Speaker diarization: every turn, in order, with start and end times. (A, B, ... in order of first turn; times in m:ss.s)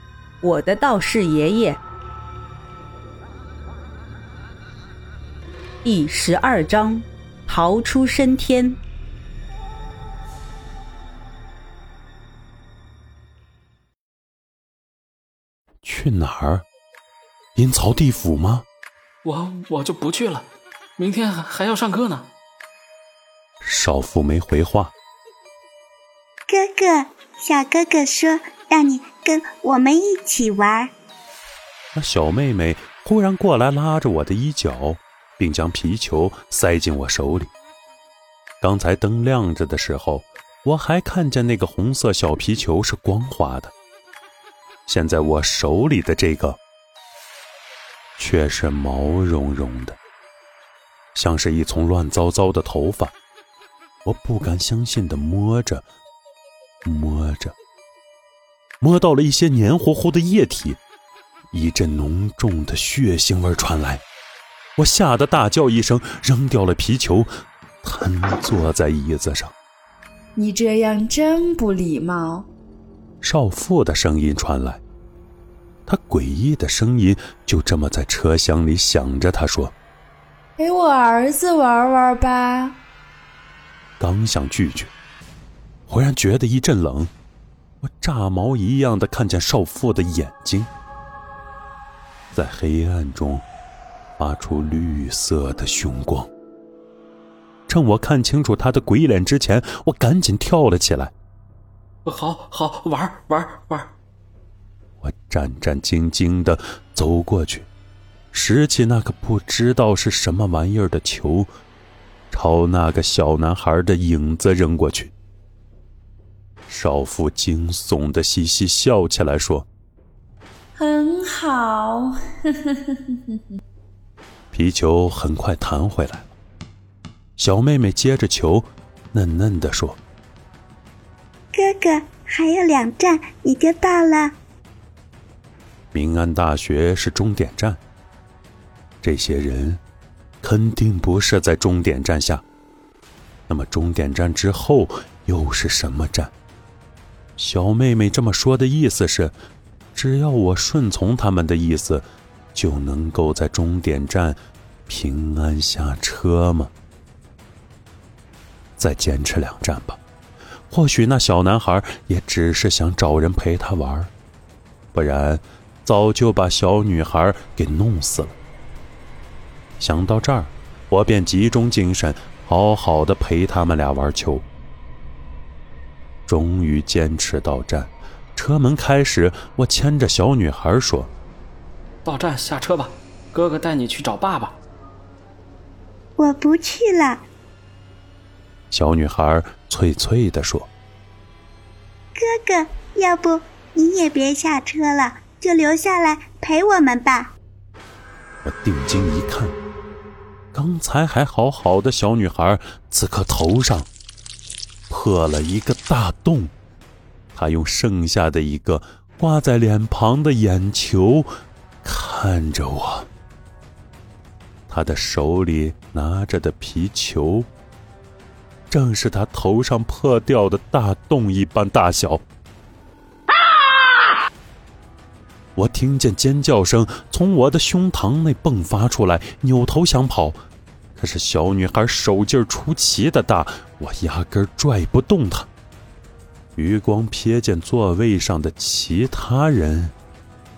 0:00.4-0:01.8 A
0:05.8-0:08.8 A
0:15.8-0:16.6 B
0:17.6-0:18.6 B
0:19.2-0:22.3 C
0:23.6-0:24.9 B
0:26.5-0:30.9 D
0:31.9-0:37.5 B
0:38.6-0:43.7 B
0:44.8-0:46.6 B
0:48.2-0:50.0 B
0:51.1-0:53.1 B
0:54.0-0:55.8 B
0:56.8-0:57.5 B
0:58.8-1:00.8 B
1:01.5-1:04.0 B
1:04.8-1:07.3 B
1:07.8-1:09.5 B
1:10.4-1:12.5 E
1:13.2-1:14.8 B
1:15.9-1:19.7 B
1:20.6-1:22.8 E
1:24.0-1:24.9 B
1:25.9-1:27.1 B
1:27.8-1:30.7 B
1:32.3-1:33.4 B
1:34.2-1:36.3 B
1:37.7-1:41.1 B
1:42.0-1:43.9 C
1:45.0-1:47.7 B
1:48.3-1:51.5 B
1:52.3-1:55.1 B
1:56.7-1:59.7 B
2:00.8-2:03.4 E
2:04.5-2:06.3 B
2:07.4-2:10.0 B
2:11.5-2:14.4 D
2:15.9-2:17.8 B
2:19.0-2:19.8 B
2:20.4-2:22.4 B
2:23.5-2:26.3 B
2:27.4-2:29.3 B
2:29.9-2:36.7 B
2:38.8-2:40.0 B
2:40.7-2:44.1 B
2:44.9-2:48.4 B
2:49.8-2:54.4 B
2:56.3-3:01.1 B
3:02.0-3:04.6 C
3:06.2-3:07.2 D
3:08.7-3:10.7 B
3:12.2-3:17.3 D
3:18.4-3:19.6 B
3:20.5-3:23.9 B
3:24.9-3:26.5 B
3:27.3-3:31.3 B
3:31.8-3:33.1 B
3:34.7-3:37.5 B
3:38.7-3:42.2 B
3:45.6-3:50.4 B
3:51.0-3:55.5 B
3:56.6-3:59.9 B